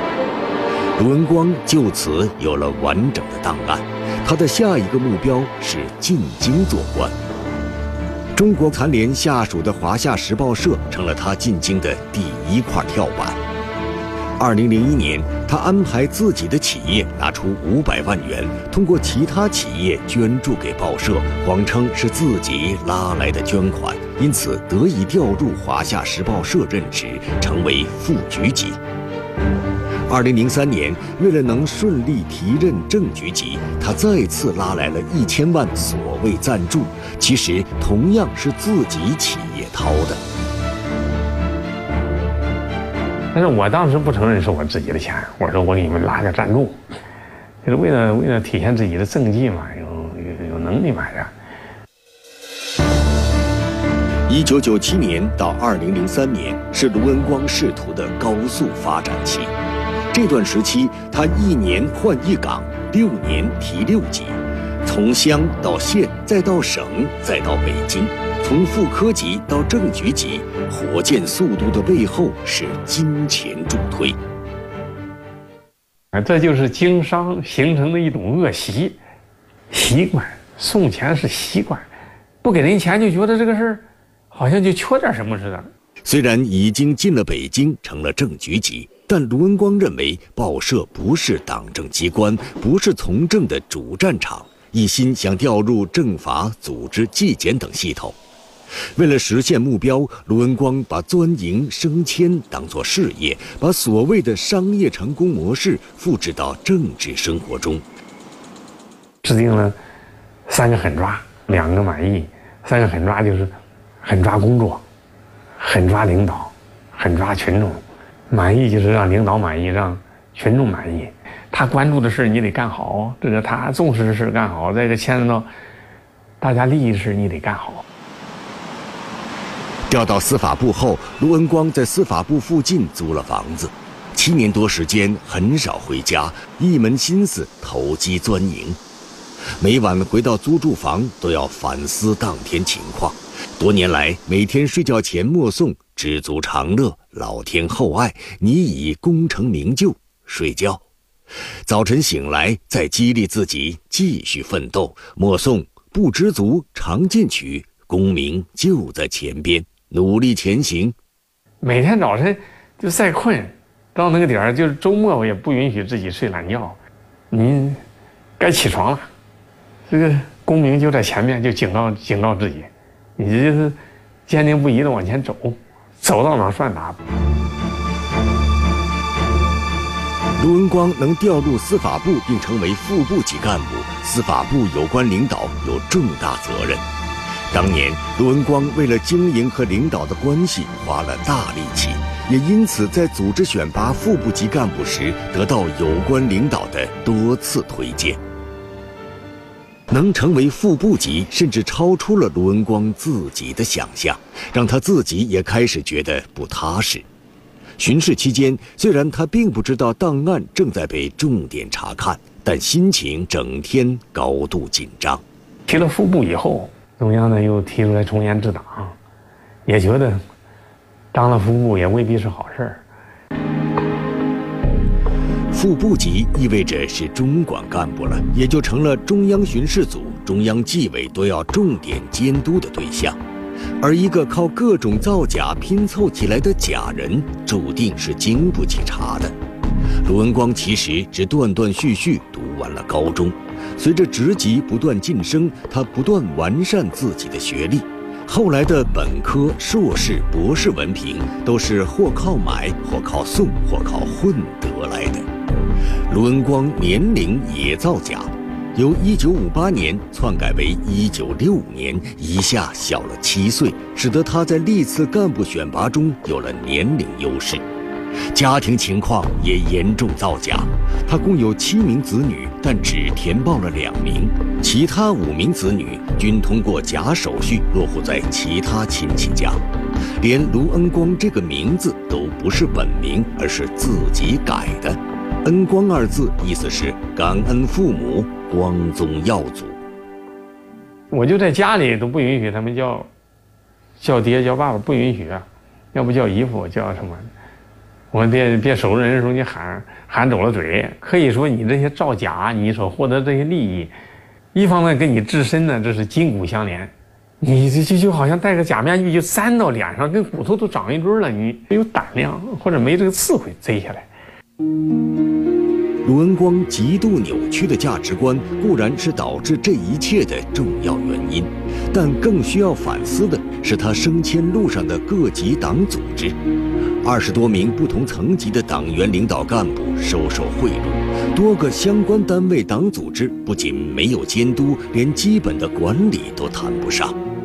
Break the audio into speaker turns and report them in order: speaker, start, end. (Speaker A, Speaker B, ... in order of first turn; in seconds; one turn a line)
Speaker A: 1.0-7.2
Speaker A: 8.3-13.4
Speaker A: 14.4-28.8
Speaker A: 30.1-40.2
Speaker B: 43.3-46.8
Speaker B: 47.6-51.3
Speaker A: 54.3-59.5
Speaker A: 60.1-74.2
Speaker B: 76.1-79.0
Speaker B: 79.7-81.9
Speaker B: 82.4-85.7
Speaker A: 86.1-98.2
Speaker A: 99.0-107.8
Speaker B: 109.2-109.8
Speaker B: 110.5-114.8
Speaker B: 115.6-125.5
Speaker B: 126.4-127.8
Speaker A: 129.9-138.8
Speaker A: 139.6-150.8
Speaker A: 151.7-161.0
Speaker B: 161.6-166.8
Speaker B: 167.3-167.8
Speaker B: 168.4-169.1
Speaker B: 169.9-177.0
Speaker A: 180.4-186.9
Speaker A: 187.5-198.2
Speaker A: 199.9-207.1
Speaker A: 207.8-215.2
Speaker B: 215.7-219.0
Speaker B: 219.7-220.2
Speaker B: 221.1-222.8
Speaker A: 225.5-233.2
Speaker A: 233.8-239.4
Speaker A: 240.0-255.3
Speaker A: 256.1-267.6
Speaker A: 268.3-279.6
Speaker A: 280.2-289.8
Speaker B: 291.1-293.1
Speaker B: 294.0-297.3
Speaker B: 298.1-303.9
Speaker B: 304.5-314.1
Speaker A: 316.0-326.4
Speaker A: 327.0-337.2